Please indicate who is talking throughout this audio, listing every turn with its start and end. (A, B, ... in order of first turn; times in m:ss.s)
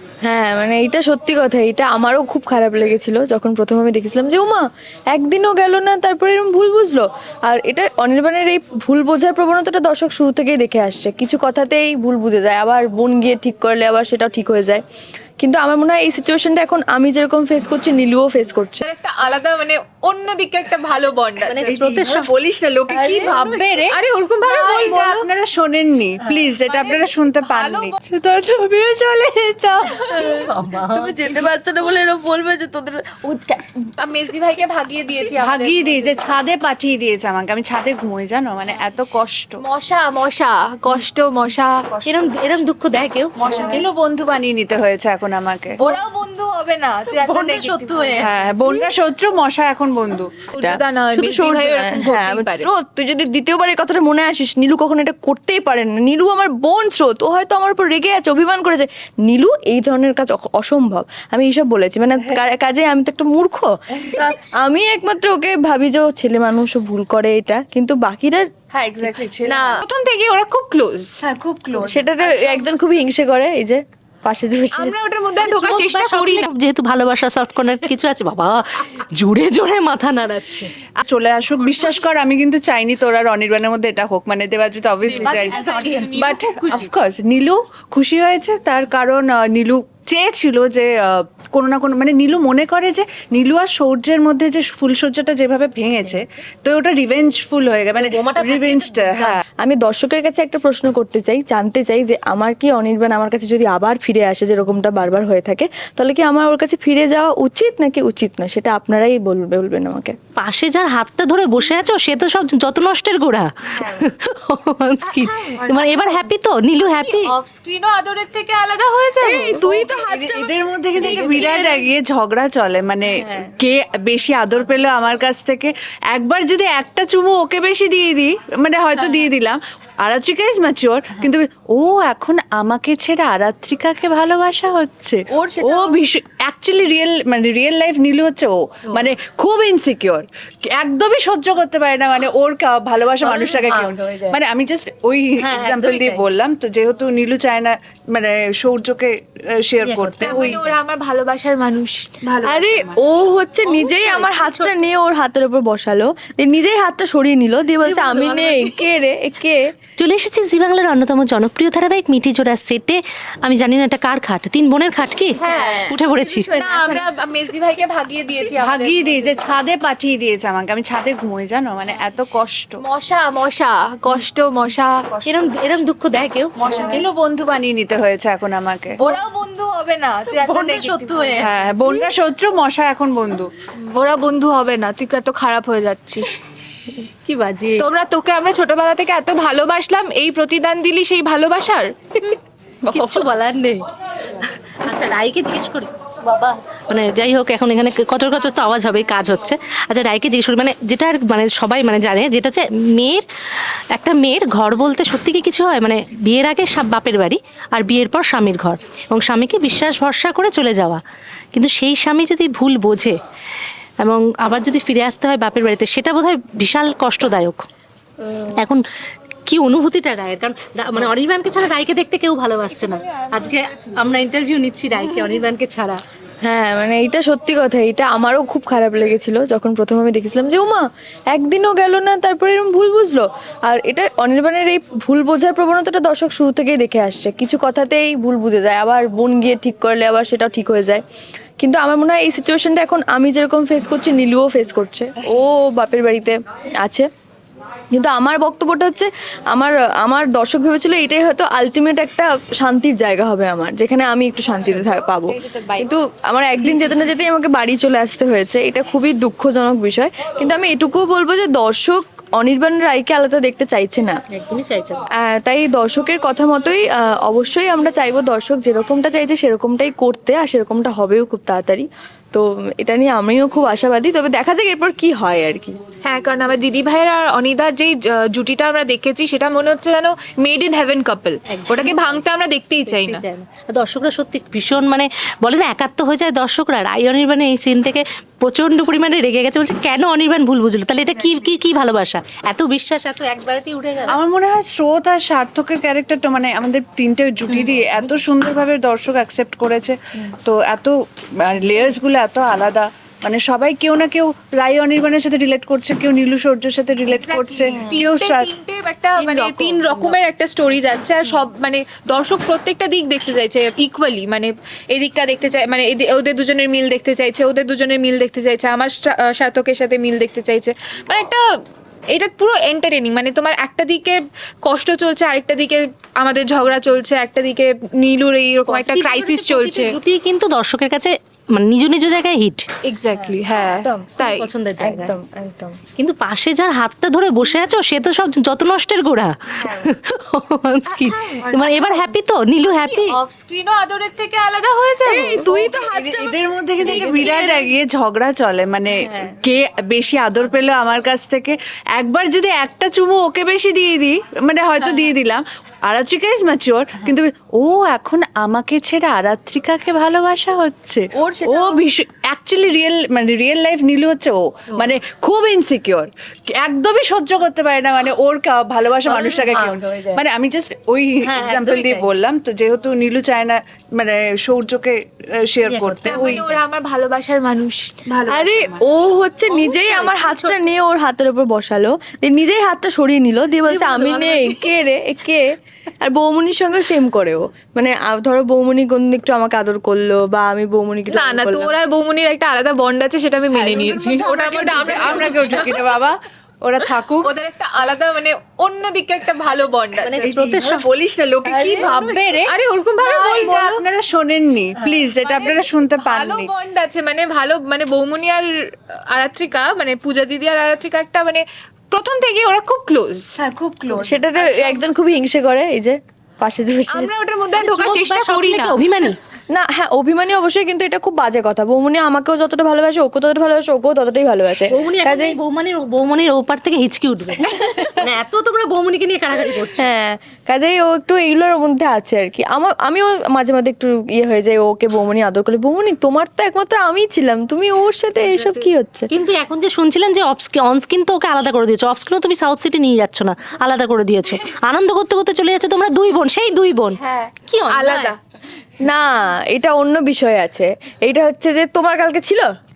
0:00.2-0:14.8 A
0:15.4-0:18.8 A
0:18.8-0:21.9 B
0:21.4-0:22.3 C
0:21.6-0:30.1 D
0:22.9-0:23.5 A
0:23.9-0:25.3 B
0:26.4-0:28.0 B
0:30.1-0:31.5 C
0:30.2-0:33.7 A
0:34.0-0:36.2 B
0:35.4-0:39.6 D
0:39.6-0:42.0 B
0:42.0-0:43.8 C
0:42.1-0:42.5 D
0:43.4-0:45.8 D
0:43.5-0:43.8 B
0:45.8-0:48.9 B
0:47.1-0:48.3 C
0:48.2-0:50.4 D
0:50.5-0:52.7 B
0:50.6-1:08.5 A
1:04.0-1:04.3 D
1:08.7-1:09.8 D
1:09.4-1:11.1 B
1:11.2-1:12.6 D
1:11.8-1:14.9 A
1:14.7-1:16.5 B
1:15.4-1:20.7 C
1:21.0-1:39.4 D
1:25.1-1:26.9 B
1:25.1-1:26.7 C
1:38.0-1:39.4 C
1:39.6-1:50.1 A
1:50.4-1:57.3 C
1:55.0-1:56.2 B
1:57.0-2:01.9 B
1:59.2-1:59.9 A
1:59.2-2:30.7 D
2:01.0-2:01.4 C
2:15.3-2:16.0 A
2:23.3-2:24.3 C
2:25.4-2:26.2 C
2:29.8-2:30.6 C
2:30.2-2:32.5 B
2:32.2-2:33.0 D
2:32.4-2:39.6 A
2:33.6-2:34.8 C
2:37.8-2:38.8 C
2:40.0-2:46.5 C
2:45.4-2:49.5 B
2:45.4-2:45.8 A
2:46.6-2:47.0 D
2:48.6-2:52.8 D
2:52.8-2:55.2 B
2:55.2-2:57.0 C
2:55.2-2:55.8 D
2:56.6-2:59.0 D
2:56.7-2:57.0 B
2:59.0-3:02.1 B
3:00.3-3:01.5 C
3:01.4-3:03.5 D
3:03.8-3:06.3 B
3:07.0-3:07.9 C
3:07.8-3:12.3 B
3:12.9-3:13.3 A
3:12.9-3:13.8 C
3:14.8-3:23.2 C
3:23.9-3:31.0 C
3:31.5-3:33.2 C
3:34.0-3:37.6 C
3:38.5-3:38.8 C
3:39.5-3:46.0 C
3:43.1-3:44.0 B
3:45.0-3:45.4 A
3:46.4-4:01.0 A
4:01.6-4:07.1 A
4:07.9-4:24.2 A
4:14.7-4:15.9 D
4:24.3-4:25.0 C
4:25.2-4:35.8 A
4:36.0-4:43.2 B
4:41.4-4:42.2 C
4:42.9-4:54.2 C
4:51.1-4:51.5 B
4:54.1-5:00.9 D
5:01.4-5:08.5 D
5:07.1-5:21.4 B
5:07.7-5:08.1 A
5:09.2-5:10.2 A
5:22.1-5:30.0 B
5:28.7-5:32.6 C
5:32.9-5:34.5 B
5:33.2-5:34.1 A
5:34.2-5:35.1 C
5:34.8-5:35.8 A
5:36.0-5:43.1 C
5:40.9-5:42.0 B
5:42.6-5:46.3 B
5:45.0-5:46.2 A
5:45.9-6:16.5 D
5:46.8-5:47.6 A
6:01.2-6:01.8 A
6:09.1-6:10.1 C
6:09.1-6:09.7 A
6:11.2-6:12.1 C
6:15.7-6:16.4 C
6:16.1-6:18.0 B
6:18.1-6:18.8 D
6:18.3-6:25.4 A
6:19.5-6:20.6 C
6:23.6-6:24.7 C
6:26.0-6:31.7 A
6:31.1-6:35.7 B
6:33.6-6:35.3 A
6:34.2-6:37.3 D
6:37.2-6:40.3 B
6:40.0-6:40.9 C
6:40.1-6:46.5 D
6:41.5-6:42.1 C
6:41.6-6:42.0 A
6:42.4-6:43.8 B
6:45.0-6:53.3 B
6:53.4-6:54.3 D
6:54.0-6:57.1 A
6:54.3-6:55.0 B
6:56.9-6:58.8 B
6:57.5-6:59.2 C
6:59.5-7:05.4 A
7:04.7-7:09.9 C
7:07.4-7:08.0 A
7:09.7-7:19.1 A
7:19.1-7:28.1 C
7:27.0-7:28.2 B
7:28.8-7:32.5 A